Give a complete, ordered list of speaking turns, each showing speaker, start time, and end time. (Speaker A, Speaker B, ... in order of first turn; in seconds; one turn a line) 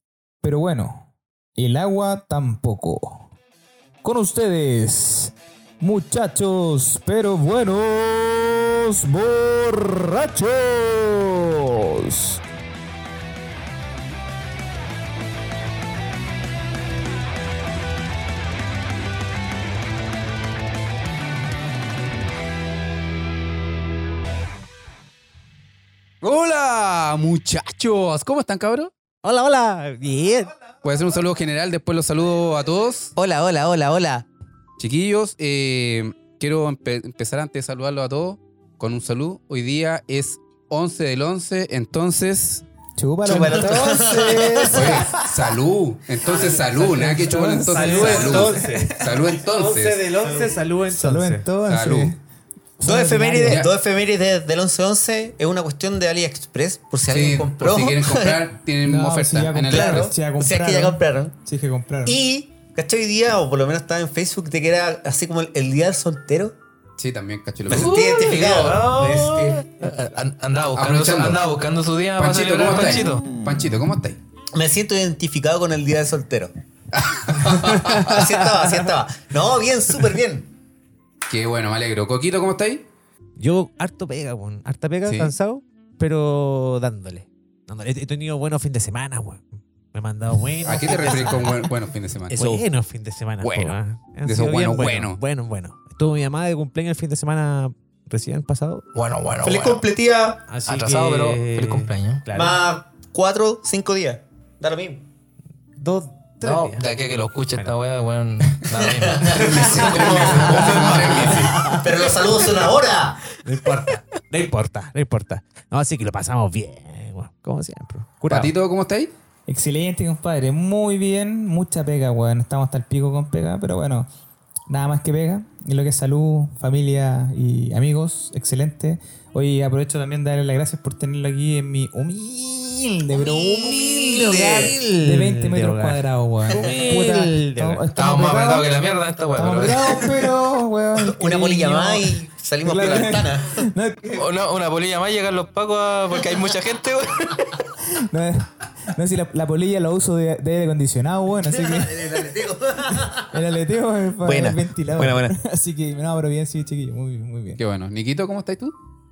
Speaker A: 0.4-3.3
Speaker A: 4.0-12.4
Speaker B: 26.2-28.9
Speaker C: 29.2-30.5
Speaker B: 30.8-33.1
Speaker D: 33.1-34.3
Speaker B: 34.8-42.6
Speaker A: 43.0-45.3
Speaker D: 43.2-45.0
Speaker B: 44.7-50.1
Speaker C: 46.3-46.6
Speaker A: 46.6-49.1
Speaker C: 47.6-51.5
Speaker A: 50.9-52.2
Speaker B: 51.7-52.1
Speaker A: 52.8-53.6
Speaker D: 52.8-58.4
Speaker B: 53.5-53.7
Speaker B: 57.1-60.1
Speaker A: 58.8-62.2
Speaker D: 59.7-61.3
Speaker D: 62.0-66.5
Speaker B: 67.0-68.1
Speaker D: 67.7-69.6
Speaker E: 67.7-73.2
Speaker B: 70.7-71.5
Speaker B: 72.2-74.2
Speaker D: 74.5-76.5
Speaker B: 76.9-78.2
Speaker D: 77.4-80.5
Speaker B: 81.3-82.9
Speaker C: 83.4-91.5
Speaker B: 85.0-85.3
Speaker B: 90.6-92.5
Speaker D: 90.8-91.5
Speaker D: 92.3-92.6
Speaker C: 92.4-98.8
Speaker B: 93.4-95.2
Speaker E: 98.9-99.8
Speaker D: 99.4-100.4
Speaker C: 100.5-102.6
Speaker E: 100.7-102.2
Speaker D: 102.3-105.0
Speaker C: 105.8-107.0
Speaker E: 106.4-111.8
Speaker D: 108.7-113.4
Speaker B: 109.3-111.7
Speaker C: 109.4-109.8
Speaker C: 110.8-111.8
Speaker C: 113.4-118.5
Speaker B: 118.3-119.1
Speaker A: 119.5-124.1
Speaker A: 124.7-133.5
Speaker D: 133.1-134.8
Speaker C: 133.3-137.8
Speaker A: 134.9-144.2
Speaker E: 137.9-140.1
Speaker D: 140.9-143.6
Speaker E: 144.1-147.6
Speaker A: 147.8-152.2
Speaker D: 151.4-153.3
Speaker A: 153.2-157.6
Speaker D: 154.2-155.3
Speaker B: 157.6-158.7